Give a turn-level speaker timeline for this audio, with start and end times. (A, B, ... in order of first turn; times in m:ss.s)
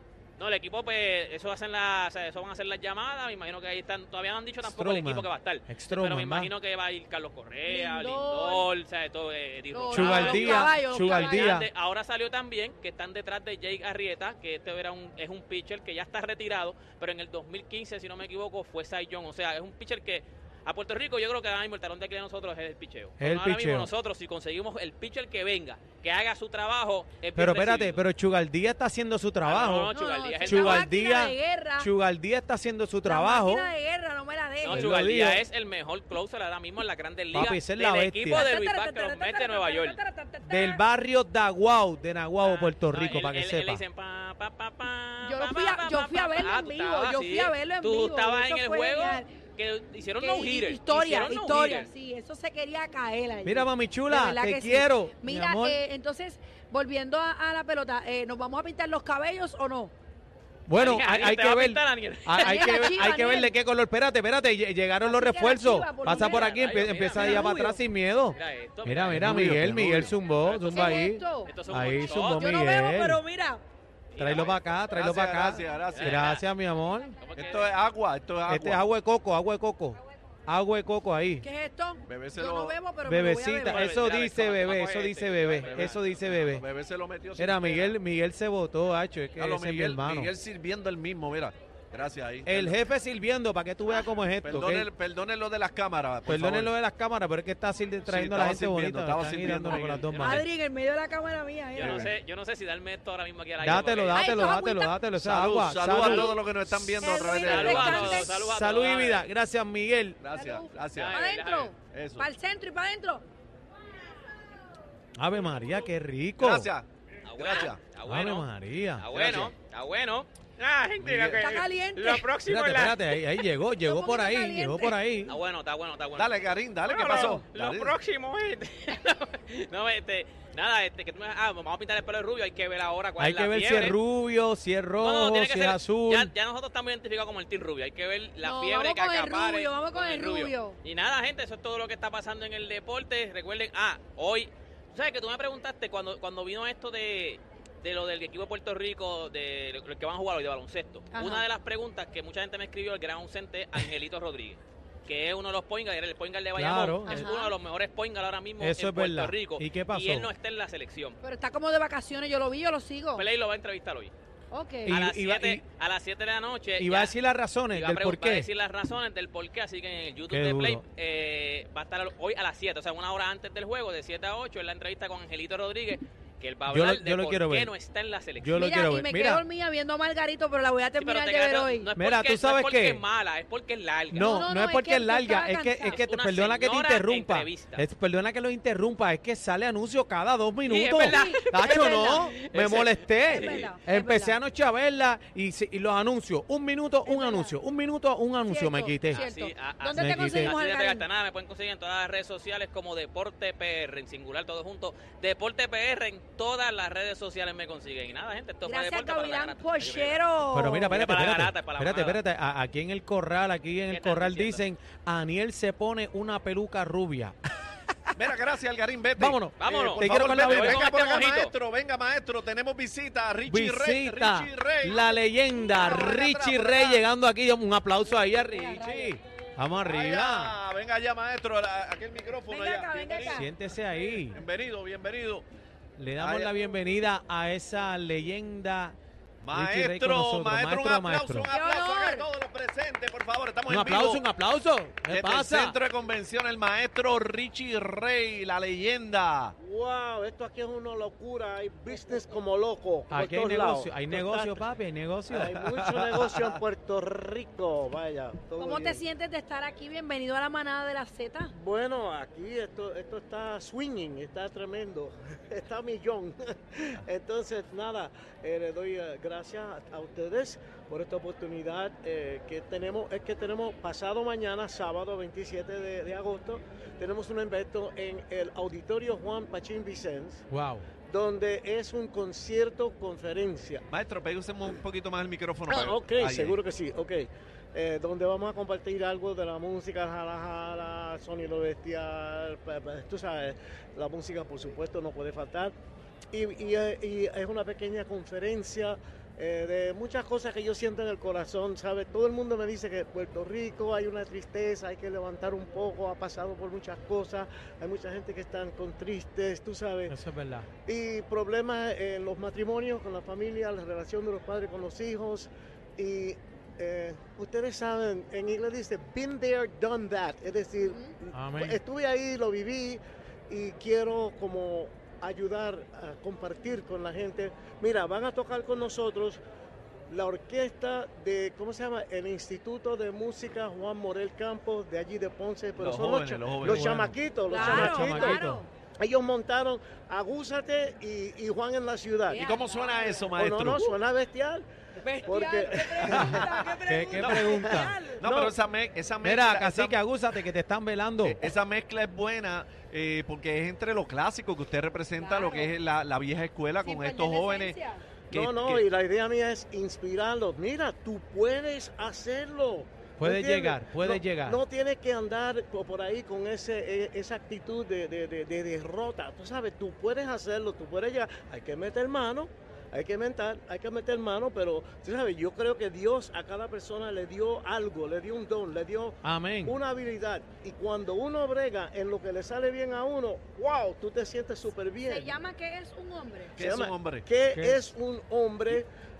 0:00.4-0:28.0 A
0:04.6-0:06.5 B
0:07.6-0:08.7 C
0:09.7-0:11.6 C
0:09.9-0:11.7 B
0:23.2-0:23.9 B
0:27.4-0:29.9 B
0:29.4-0:30.9 A
0:29.9-0:31.9 C
0:30.4-0:33.7 B
0:33.0-0:35.0 C
0:34.6-0:40.0 A
0:34.7-0:35.4 B
0:37.3-0:38.5 B
0:38.3-0:40.8 C
0:40.4-0:43.8 B
0:42.4-0:51.9 A
0:45.2-0:49.3 C
0:50.2-0:59.9 C
0:53.4-0:55.8 B
1:00.7-1:13.2 B
1:00.7-1:03.4 A
1:02.4-1:03.5 C
1:05.0-1:07.8 C
1:06.0-1:07.5 A
1:08.3-1:09.4 A
1:09.1-1:10.2 D
1:10.2-1:12.5 A
1:10.7-1:11.6 C
1:12.2-1:13.6 C
1:14.1-1:14.7 A
1:14.2-1:17.2 B
1:14.9-1:16.2 D
1:15.8-1:16.4 A
1:17.2-1:17.8 A
1:17.4-1:18.8 D
1:18.5-1:21.4 B
1:21.4-1:23.9 C
1:22.1-1:22.8 D
1:23.1-1:26.6 B
1:23.6-1:26.3 A
1:25.6-1:27.9 D
1:27.4-1:30.3 B
1:29.4-1:32.8 D
1:32.4-1:34.9 B
1:34.4-1:36.7 D
1:36.3-1:40.4 B
1:38.1-1:40.1 D
1:39.6-1:40.4 A
1:40.2-1:42.1 C
1:41.8-1:44.6 A
1:41.8-1:42.1 D
1:43.6-1:46.3 B
1:44.1-1:45.0 C
1:45.2-1:48.3 D
1:46.0-1:46.4 C
1:47.0-1:48.3 C
1:47.3-1:49.2 A
1:48.4-1:50.2 B
1:50.2-1:51.1 D
1:50.3-1:53.2 C
1:50.9-1:51.7 A
1:51.9-1:52.2 D
1:55.2-1:56.7 B
1:56.4-1:56.8 D
1:57.2-2:03.4 A
1:57.4-1:57.8 D
1:58.0-1:59.1 B
1:59.1-1:59.5 D
2:01.0-2:01.5 D
2:01.4-2:02.3 C
2:02.4-2:05.4 B
2:03.8-2:05.0 C
2:05.3-2:14.0 A
2:06.2-2:07.9 D
2:13.2-2:16.3 B
2:15.0-2:41.2 A
2:18.4-2:20.8 C
2:31.1-2:31.4 C
2:36.5-2:37.2 B
2:37.1-2:37.5 C
2:38.6-2:40.3 B
2:41.2-2:43.2 C
2:43.1-2:44.1 A
2:44.5-2:45.0 C
2:44.8-2:45.6 B
2:44.9-2:47.1 A
2:46.8-2:48.5 B
2:47.7-2:58.7 A
2:50.3-2:50.8 B
2:56.7-2:57.7 B
2:58.4-2:59.4 B
2:58.5-3:01.9 C
3:01.0-3:04.3 A
3:02.0-3:03.0 B
3:04.1-3:19.2 B
3:04.2-3:06.0 C
3:05.9-3:07.8 A
3:10.6-3:13.7 A
3:11.0-3:12.4 C
3:13.3-3:14.4 C
3:17.0-3:17.6 C
3:18.4-3:21.1 C
3:19.1-3:30.2 A
3:20.0-3:20.6 B
3:28.6-3:30.9 C
3:30.5-3:37.4 B
3:30.9-3:32.2 A
3:33.9-3:34.6 A
3:38.2-3:45.0 D
3:39.2-3:40.9 B
3:39.6-3:41.5 A
3:43.4-3:50.6 B
3:45.8-3:47.0 D
3:48.5-3:49.1 C
3:48.8-3:49.1 D
3:49.9-3:53.4 D
3:52.5-3:53.5 C
3:53.3-3:54.4 B
3:54.3-3:55.4 D
3:56.0-3:59.0 B
3:56.2-3:56.5 D
3:59.4-4:04.2 D
3:59.5-4:01.5 B
4:01.5-4:02.3 C
4:03.7-4:05.8 B
4:05.1-4:09.5 D
4:09.6-4:14.6 E
4:13.1-4:15.6 B
4:15.4-4:16.6 D
4:15.4-4:19.0 E
4:18.6-4:21.5 C
4:21.5-4:40.4 E
4:40.5-4:40.9 B
4:41.1-4:43.8 E
4:43.9-4:46.6 D
4:45.7-4:55.7 E
4:56.3-5:10.1 E
5:10.1-5:10.7 B
5:10.8-5:29.4 E
5:20.8-5:21.1 C
5:21.3-5:21.8 B
5:30.1-5:38.4 E
5:35.8-5:37.0 D
5:36.6-5:38.6 B
5:37.5-5:38.7 C
5:39.0-5:42.4 E
5:42.3-5:43.3 C
5:42.3-5:43.9 D
5:43.3-5:44.7 E
5:45.0-5:48.3 C
5:45.2-5:46.5 E
5:46.5-5:47.5 D
5:46.8-5:47.9 B
5:47.2-5:48.5 E
5:48.2-5:50.0 D
5:49.2-5:51.4 B
5:51.2-5:57.8 D
5:55.2-5:55.7 C
5:56.8-5:58.0 C
5:58.3-5:58.8 D
5:58.3-6:25.4 E
6:03.2-6:04.6 B
6:19.2-6:19.7 B
6:25.0-6:26.6 C
6:26.6-6:28.9 E
6:26.6-6:27.2 D
6:27.5-6:27.9 B